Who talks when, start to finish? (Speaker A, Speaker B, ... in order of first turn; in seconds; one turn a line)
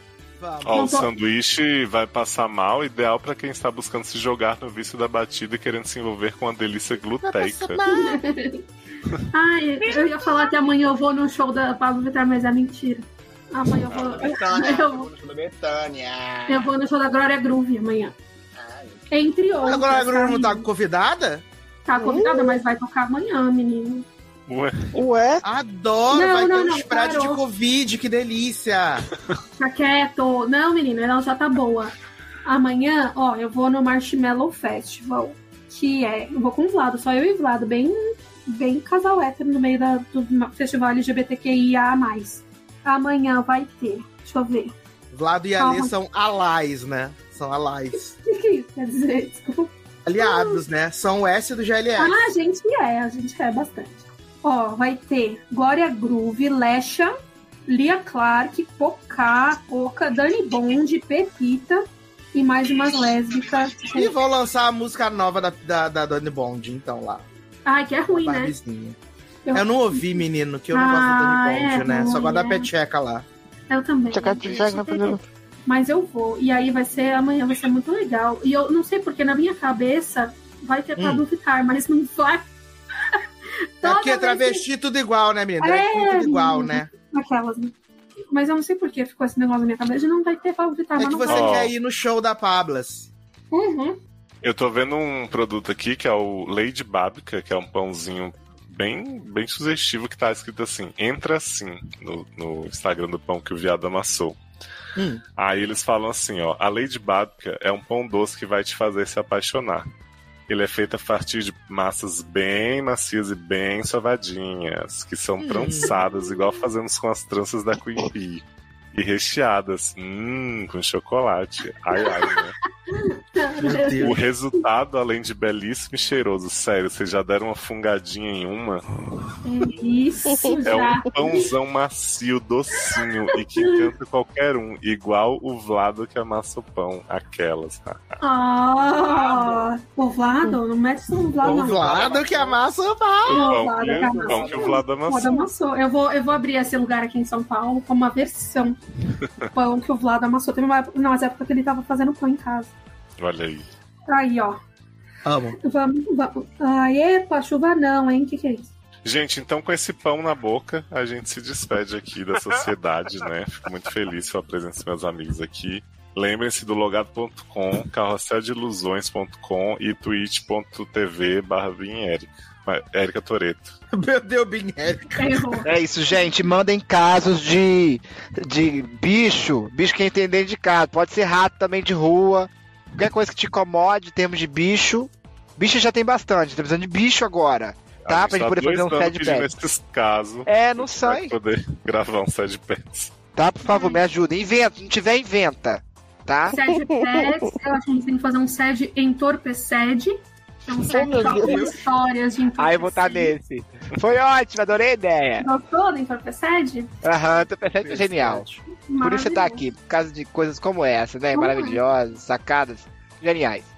Speaker A: 0.4-0.8
Speaker B: 0.6-7.8
Speaker C: 0.7-1.1
Speaker A: 7.6-8.1
Speaker C: 7.8-8.6
Speaker C: 9.3-15.1
Speaker B: 13.9-14.3
Speaker D: 14.0-16.7
Speaker C: 16.5-18.2
Speaker D: 18.6-19.0
Speaker C: 19.1-20.7
Speaker A: 19.6-21.4
Speaker C: 21.9-24.1
Speaker E: 21.9-22.6
Speaker B: 24.5-25.0
Speaker E: 24.9-25.4
Speaker A: 25.4-29.1
Speaker C: 26.1-27.4
Speaker C: 29.6-44.7
Speaker A: 45.1-48.1
Speaker C: 45.6-45.9
Speaker C: 48.2-50.6
Speaker A: 50.1-52.2
Speaker C: 52.0-57.1
Speaker C: 57.7-64.2
Speaker A: 64.0-67.2
Speaker C: 67.7-68.6
Speaker A: 68.1-69.0
Speaker C: 69.5-72.7
Speaker A: 69.5-73.3
Speaker C: 73.7-82.5
Speaker E: 74.1-75.2
Speaker A: 81.0-81.2
Speaker C: 83.8-84.7
Speaker A: 83.8-86.9
Speaker C: 85.6-87.7
Speaker C: 88.3-91.6
Speaker A: 91.0-93.1
Speaker B: 91.3-91.7
Speaker C: 93.5-94.0
Speaker B: 94.4-104.4
Speaker A: 105.0-105.2
Speaker B: 105.4-109.9
Speaker B: 110.5-122.5
Speaker A: 115.4-115.9
Speaker C: 122.0-122.3
Speaker C: 122.9-124.6
Speaker A: 123.6-124.2
Speaker B: 124.0-128.8
Speaker C: 129.4-131.5
Speaker E: 130.3-130.7
Speaker B: 130.6-138.2
Speaker C: 132.9-133.9
Speaker C: 138.2-142.1
Speaker A: 141.4-143.6
Speaker D: 141.8-142.5
Speaker B: 143.2-145.4
Speaker C: 143.3-148.8
Speaker D: 143.9-144.8
Speaker C: 149.4-152.7
Speaker B: 153.2-153.7
Speaker C: 154.1-154.6
Speaker A: 155.2-155.6
Speaker C: 155.6-158.7
Speaker B: 159.0-173.8
Speaker A: 173.9-175.6
Speaker C: 175.2-175.7
Speaker D: 175.6-189.5
Speaker B: 188.0-193.1
Speaker D: 190.5-191.3
Speaker D: 193.3-196.6
Speaker C: 193.6-194.0
Speaker C: 196.5-203.3
Speaker E: 196.7-197.5
Speaker E: 200.9-201.7
Speaker D: 201.2-201.6
Speaker D: 202.6-205.5
Speaker C: 205.4-206.9
Speaker D: 207.0-208.5
Speaker A: 207.8-208.6
Speaker C: 208.9-209.6
Speaker D: 209.0-213.7
Speaker C: 211.3-211.8